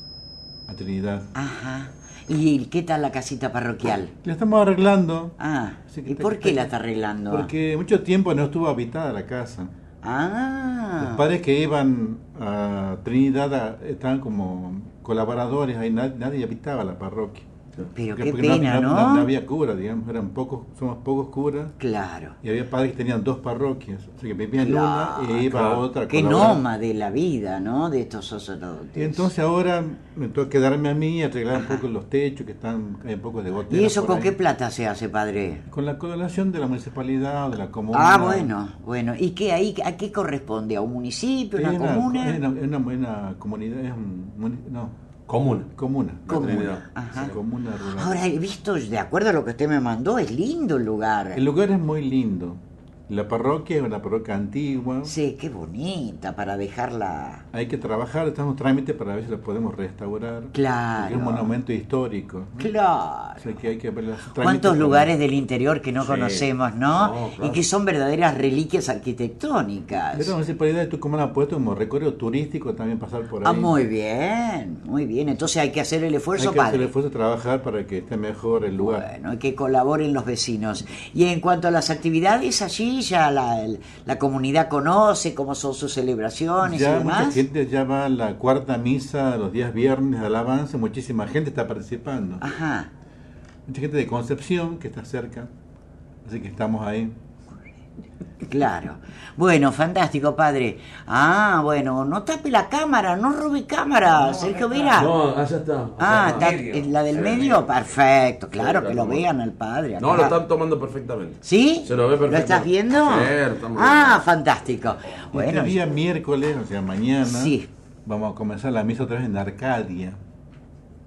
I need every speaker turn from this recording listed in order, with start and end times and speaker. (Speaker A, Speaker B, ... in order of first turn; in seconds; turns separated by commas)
Speaker A: 0.7-1.3, Speaker B: 1.3-4.1, Speaker A: 4.2-5.4, Speaker B: 5.4-7.5, Speaker A: 5.9-6.7, Speaker A: 7.3-9.7, Speaker B: 10.0-11.2, Speaker A: 11.0-17.5, Speaker B: 17.9-19.3, Speaker A: 18.1-21.8, Speaker B: 21.8-22.4, Speaker A: 22.4-26.6, Speaker B: 24.6-29.3, Speaker A: 28.9-34.4, Speaker B: 31.5-31.8, Speaker B: 33.7-35.6, Speaker A: 35.7-38.5, Speaker B: 37.9-42.4, Speaker A: 41.6-45.0, Speaker C: 45.3-45.7, Speaker A: 45.8-48.3, Speaker C: 46.3-46.8, Speaker B: 46.3-51.4, Speaker A: 51.3-55.1, Speaker B: 55.0-57.5, Speaker A: 57.5-62.7, Speaker B: 60.5-61.5, Speaker B: 62.6-63.4, Speaker A: 63.4-65.1, Speaker B: 64.4-70.4, Speaker C: 66.0-67.6, Speaker A: 70.1-73.7, Speaker B: 73.4-76.9, Speaker A: 76.4-79.0, Speaker B: 78.8-87.4, Speaker A: 86.6-92.4, Speaker B: 92.4-92.9, Speaker A: 93.7-95.5, Speaker A: 96.2-97.2, Speaker B: 98.4-105.1, Speaker C: 104.4-107.7, Speaker B: 106.0-110.4, Speaker C: 108.5-109.3, Speaker C: 110.0-114.2, Speaker B: 111.4-115.8, Speaker A: 115.3-120.2, Speaker B: 117.2-117.7